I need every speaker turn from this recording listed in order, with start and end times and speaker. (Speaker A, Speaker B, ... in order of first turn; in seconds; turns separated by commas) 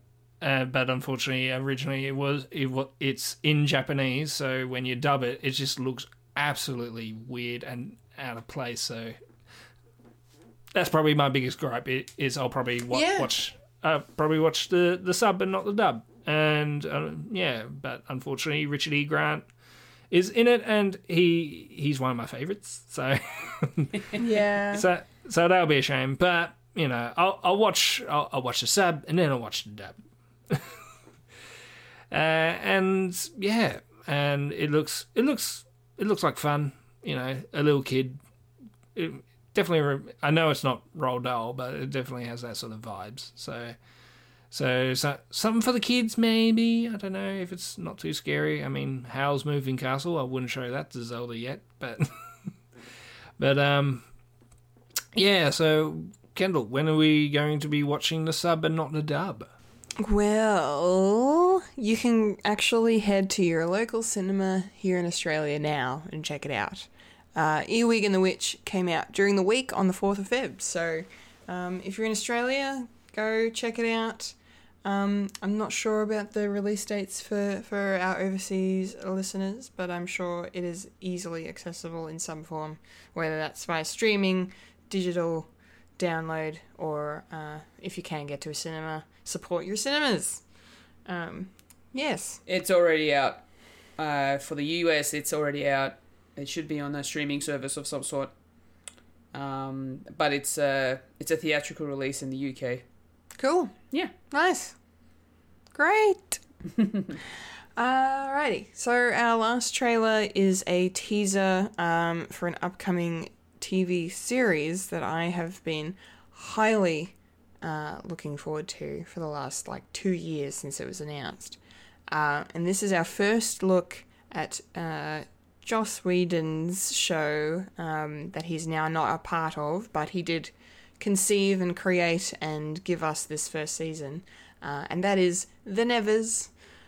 Speaker A: 0.4-9.2, Speaker A: 10.7-19.4, Speaker B: 12.9-13.3, Speaker A: 20.1-24.1, Speaker B: 24.1-24.9, Speaker A: 24.7-30.0, Speaker A: 30.5-30.8, Speaker A: 32.1-38.2, Speaker A: 38.9-43.8, Speaker A: 44.5-52.5, Speaker A: 53.4-54.0, Speaker A: 55.1-59.5, Speaker B: 60.0-90.4, Speaker B: 91.0-92.4, Speaker C: 92.5-93.4, Speaker C: 94.0-98.3, Speaker C: 99.3-102.8, Speaker B: 103.4-103.8, Speaker B: 104.3-104.8, Speaker B: 105.7-106.4, Speaker B: 107.8-136.5